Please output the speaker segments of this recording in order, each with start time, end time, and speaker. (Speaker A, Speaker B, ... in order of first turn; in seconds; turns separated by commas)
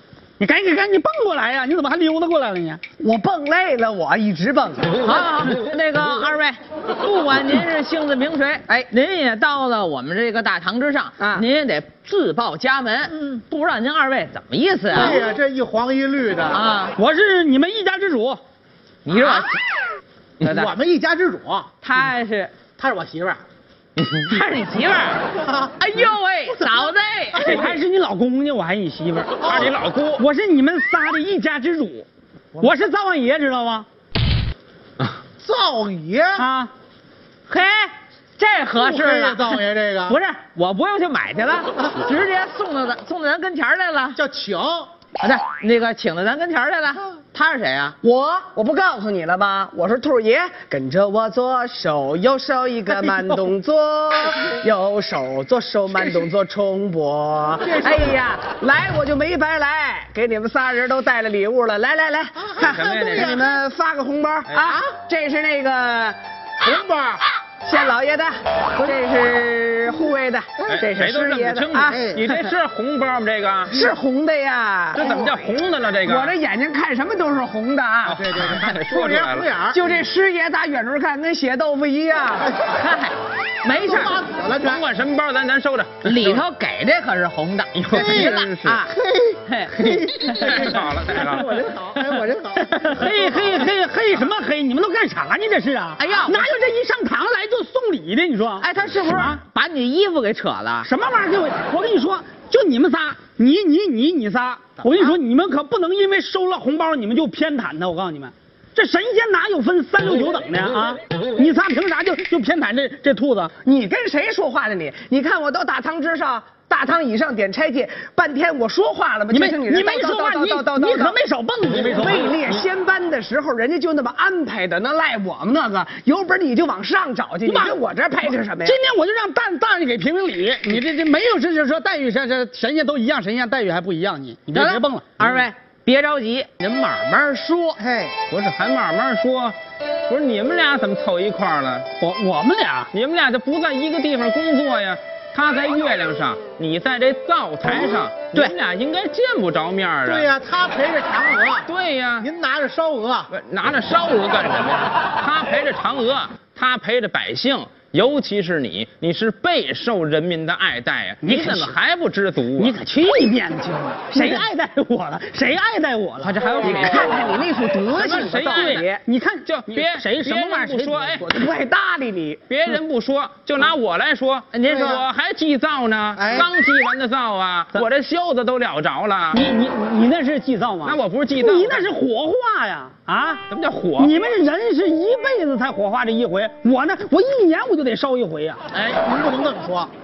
Speaker A: 0.4-2.8, Speaker B: 3.0-5.0, Speaker C: 5.0-15.2, Speaker B: 11.2-11.4, Speaker D: 14.9-16.6, Speaker C: 16.5-16.9, Speaker A: 17.0-18.4, Speaker C: 19.1-19.5, Speaker D: 20.4-21.7, Speaker C: 21.8-22.5, Speaker D: 22.8-23.4, Speaker E: 24.0-24.3, Speaker C: 24.2-25.3, Speaker D: 25.4-25.8, Speaker C: 25.8-27.6, Speaker D: 26.5-27.0, Speaker A: 27.4-29.5, Speaker E: 27.5-27.8, Speaker D: 29.4-29.7, Speaker E: 29.4-30.2, Speaker A: 30.2-32.1, Speaker A: 32.6-33.9, Speaker D: 35.4-36.5, Speaker A: 36.4-36.7, Speaker C: 37.5-44.2, Speaker D: 38.8-40.2, Speaker D: 44.2-44.9, Speaker C: 45.2-48.0, Speaker B: 48.0-66.2, Speaker D: 57.6-58.2, Speaker D: 62.4-63.6, Speaker E: 62.6-63.4, Speaker E: 64.5-64.8, Speaker D: 66.6-67.2, Speaker B: 67.6-72.4, Speaker E: 70.7-73.7, Speaker D: 71.9-72.2, Speaker B: 73.7-75.4, Speaker E: 75.0-76.3, Speaker B: 76.0-78.7, Speaker E: 78.1-79.5, Speaker D: 78.6-79.8, Speaker B: 79.7-82.6, Speaker C: 82.7-84.2, Speaker D: 83.7-84.9, Speaker E: 84.6-86.4, Speaker C: 86.0-88.9, Speaker E: 87.8-88.8, Speaker D: 87.9-93.6, Speaker C: 89.5-90.8, Speaker E: 90.4-91.5, Speaker A: 92.7-99.4, Speaker C: 96.0-96.5, Speaker C: 98.6-100.9, Speaker A: 100.8-113.5, Speaker B: 113.6-121.2, Speaker A: 119.3-122.6, Speaker B: 121.7-128.8, Speaker A: 127.5-127.8, Speaker A: 128.6-135.1, Speaker C: 134.5-137.8, Speaker D: 137.8-138.2, Speaker E: 138.3-139.6, Speaker E: 140.1-141.9, Speaker A: 142.0-142.9, Speaker E: 142.9-150.3, Speaker D: 150.1-151.7, Speaker E: 151.7-152.3, Speaker D: 152.2-153.3, Speaker E: 153.3-162.8, Speaker A: 161.2-161.7, Speaker A: 162.6-166.4, Speaker E: 166.2-167.1, Speaker B: 166.6-169.0, Speaker E: 167.9-168.9, Speaker A: 168.5-171.2, Speaker E: 169.5-171.3, Speaker B: 171.2-172.4, Speaker E: 172.5-179.4, Speaker C: 174.5-175.0, Speaker D: 174.7-175.0, Speaker D: 176.2-176.5, Speaker A: 179.3-183.4, Speaker E: 180.8-181.9, Speaker E: 183.5-184.2, Speaker A: 184.0-188.6, Speaker D: 188.8-189.9